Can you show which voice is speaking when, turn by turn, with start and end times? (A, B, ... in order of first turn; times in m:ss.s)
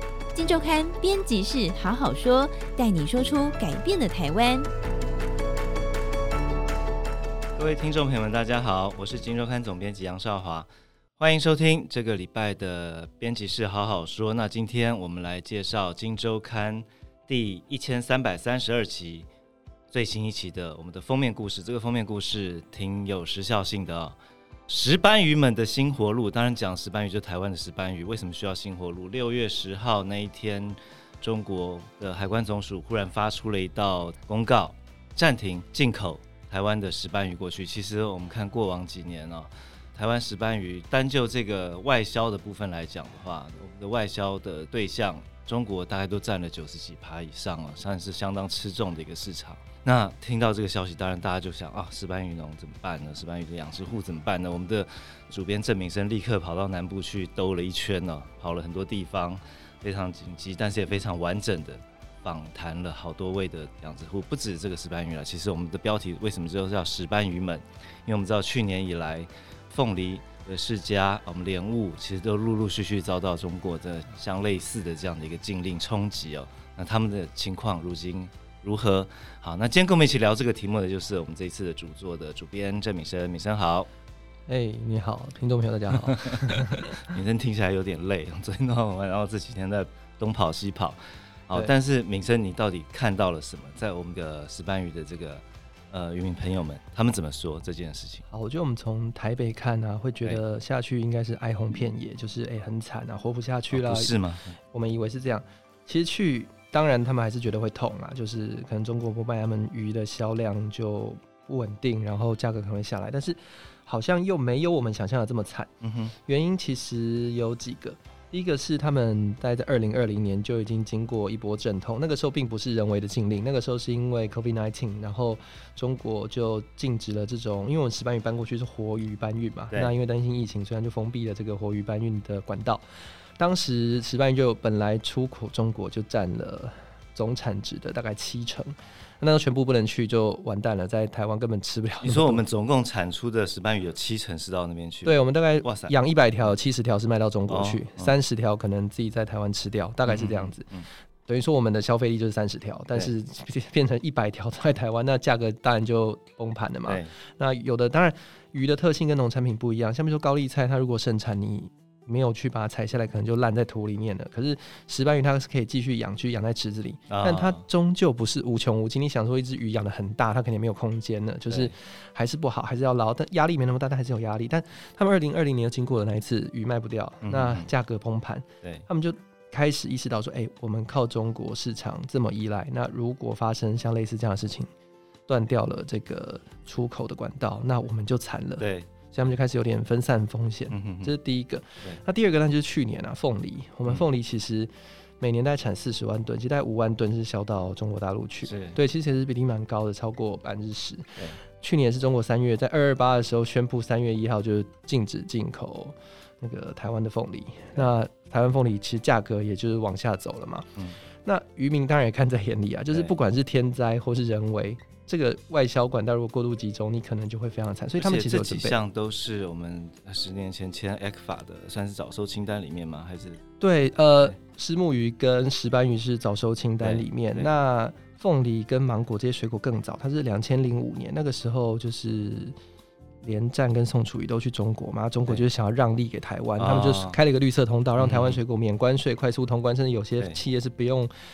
0:00.3-0:04.7 A
0:07.6-0:19.3 B
0:19.9-0:24.2 B
0:24.7-1:23.9 B
1:24.5-1:27.0 C
1:26.7-1:31.0 B
1:31.5-1:38.2 B
1:38.3-1:44.2 C
1:43.7-1:44.6 B
1:44.7-2:12.8 C
1:55.8-1:56.1 B
2:13.4-2:22.4 C
2:22.0-2:25.9 B
2:25.0-2:30.7 C
2:27.5-2:28.1 B
2:30.0-2:30.8 B
2:31.3-3:04.7 C
2:36.9-2:37.1 B
2:47.1-2:47.6 B
2:51.5-2:51.7 B
2:57.2-2:57.7 B
3:05.3-3:30.7 C
3:08.6-3:08.9 B
3:10.7-3:11.1 B
3:18.4-3:18.8 B
3:31.2-3:38.8 C
3:38.0-3:43.4 B
3:43.6-3:52.6 C
3:46.8-3:47.5 B
3:53.2-4:01.1 C
3:56.6-3:57.2 B
3:58.0-3:58.4 B